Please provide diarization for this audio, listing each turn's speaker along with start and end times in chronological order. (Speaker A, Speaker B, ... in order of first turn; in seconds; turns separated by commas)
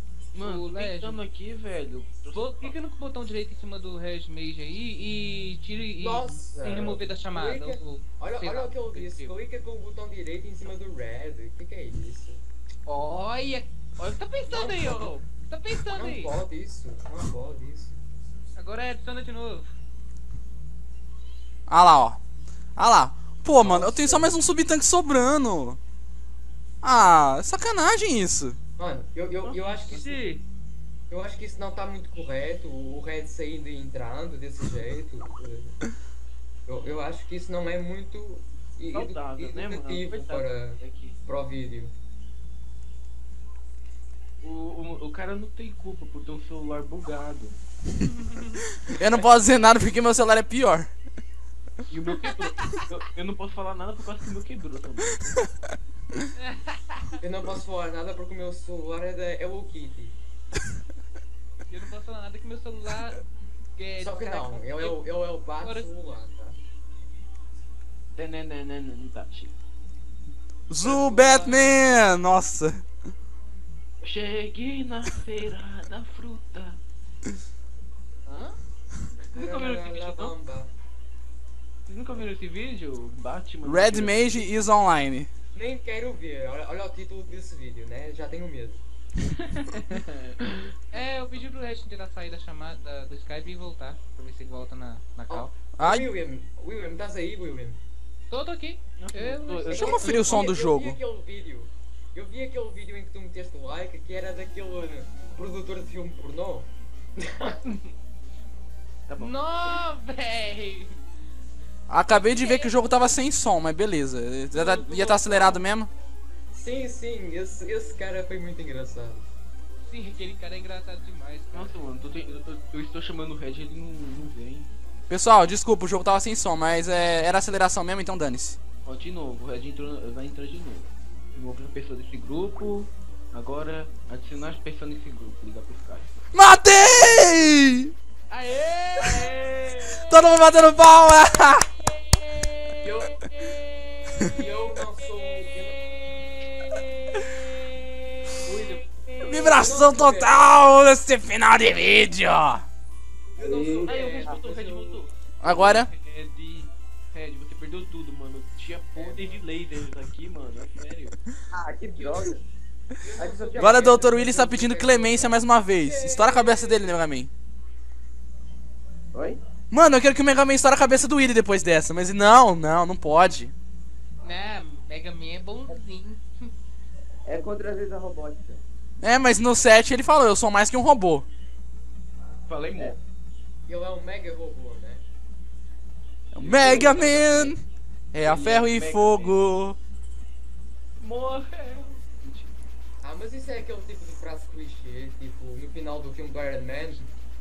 Speaker A: 0.3-2.7, Speaker B: 0.4-1.2, Speaker B: 2.3-9.3, Speaker C: 6.0-12.4, Speaker B: 12.8-16.3, Speaker C: 14.5-15.2, Speaker C: 15.8-18.0, Speaker B: 18.6-19.7, Speaker D: 21.7-22.2, Speaker D: 22.8-25.8, Speaker C: 23.6-24.4, Speaker D: 26.8-28.6, Speaker C: 28.8-30.2, Speaker A: 29.4-30.4, Speaker C: 31.1-35.8, Speaker C: 36.7-41.9, Speaker A: 38.9-41.2, Speaker A: 44.4-47.6, Speaker B: 48.0-48.6, Speaker D: 48.9-50.9, Speaker A: 51.9-55.3, Speaker B: 56.4-57.2, Speaker C: 57.2-60.1, Speaker B: 61.7-63.2, Speaker B: 63.8-65.0, Speaker C: 64.0-66.6, Speaker B: 65.6-65.9, Speaker A: 68.1-69.5, Speaker D: 70.7-72.8, Speaker C: 70.8-71.8, Speaker A: 74.0-76.8, Speaker B: 78.3-78.5, Speaker A: 79.3-80.3, Speaker C: 79.3-80.7, Speaker A: 81.9-84.3, Speaker D: 83.6-85.3, Speaker C: 85.5-88.8, Speaker A: 89.4-90.7, Speaker B: 90.9-95.5, Speaker C: 95.3-97.8, Speaker D: 95.8-96.1, Speaker B: 98.3-99.9, Speaker A: 99.0-100.5, Speaker C: 99.7-106.7, Speaker D: 99.7-101.0, Speaker C: 107.2-107.6, Speaker A: 109.1-109.4, Speaker B: 109.2-111.0, Speaker D: 111.9-115.9, Speaker A: 114.5-115.6, Speaker C: 116.5-119.2, Speaker B: 119.8-121.7, Speaker A: 121.5-124.7, Speaker D: 125.1-128.6, Speaker A: 128.8-136.1, Speaker D: 136.3-137.9, Speaker B: 138.3-139.3, Speaker A: 139.0-140.0, Speaker D: 140.1-141.7, Speaker B: 141.9-144.2, Speaker C: 142.8-143.1, Speaker C: 144.2-145.8, Speaker B: 146.1-149.5, Speaker A: 148.4-149.5, Speaker D: 149.2-152.6, Speaker C: 149.4-150.4, Speaker C: 153.3-155.1, Speaker E: 153.3-154.4, Speaker A: 153.8-161.2, Speaker D: 155.4-155.9, Speaker C: 158.9-159.4, Speaker E: 161.5-162.4, Speaker C: 161.9-162.3, Speaker C: 163.0-166.9, Speaker E: 163.2-164.0, Speaker D: 163.6-167.3, Speaker E: 169.1-169.4, Speaker D: 169.7-173.5, Speaker B: 174.2-176.5, Speaker E: 177.2-178.6, Speaker D: 179.0-181.2, Speaker A: 182.5-183.0, Speaker C: 183.7-185.0, Speaker D: 186.3-187.6, Speaker A: 186.3-187.6, Speaker E: 186.5-187.0, Speaker D: 188.1-189.8, Speaker A: 188.2-189.4, Speaker A: 191.0-192.5, Speaker C: 193.0-197.1